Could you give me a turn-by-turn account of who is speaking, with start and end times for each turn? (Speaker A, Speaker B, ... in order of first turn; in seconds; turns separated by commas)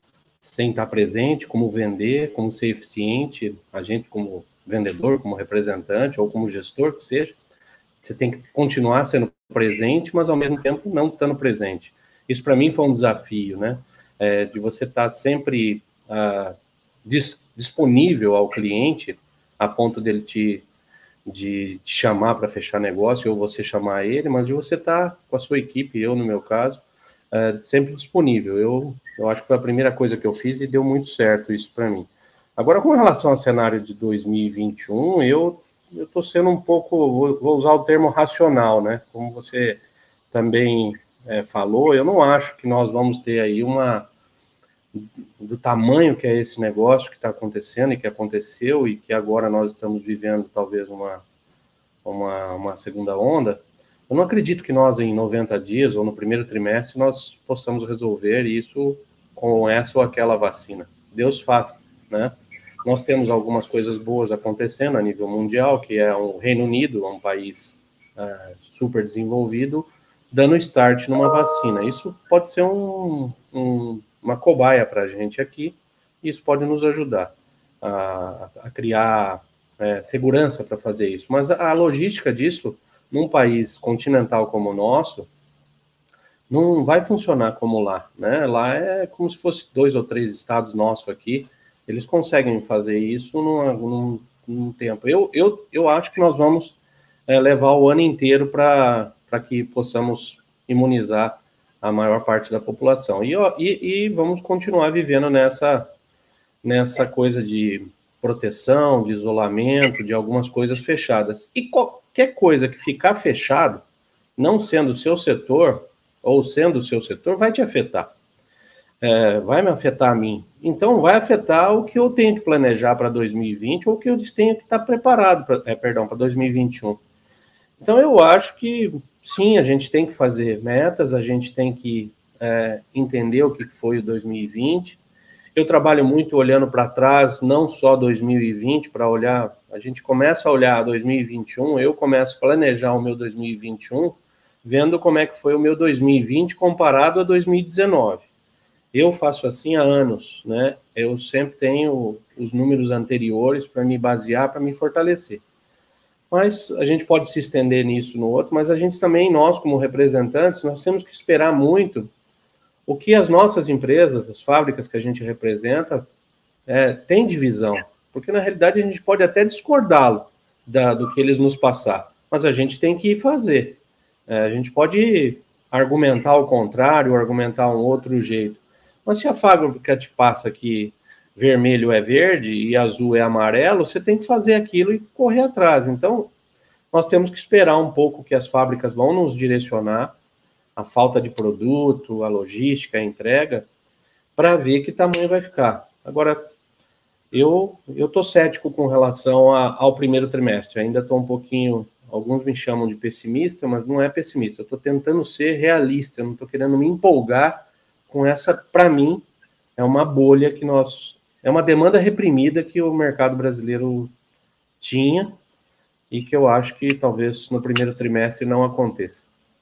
Speaker A: 0.4-7.3, Speaker A: 8.0-20.6, Speaker A: 21.2-39.8, Speaker A: 40.3-44.1, Speaker A: 44.9-51.2, Speaker A: 52.0-62.3, Speaker A: 62.8-85.3, Speaker A: 86.5-96.8, Speaker A: 97.3-105.9, Speaker A: 106.6-113.8, Speaker A: 114.4-118.1, Speaker A: 119.0-127.0, Speaker A: 127.8-135.0, Speaker A: 135.6-148.2, Speaker A: 148.9-155.4, Speaker A: 156.3-162.1, Speaker A: 162.9-166.1, Speaker A: 166.7-186.3, Speaker A: 186.9-190.1, Speaker A: 190.8-193.7, Speaker A: 194.4-196.5, Speaker A: 197.3-209.2, Speaker A: 209.8-214.1, Speaker A: 214.8-215.4, Speaker A: 216.1-219.2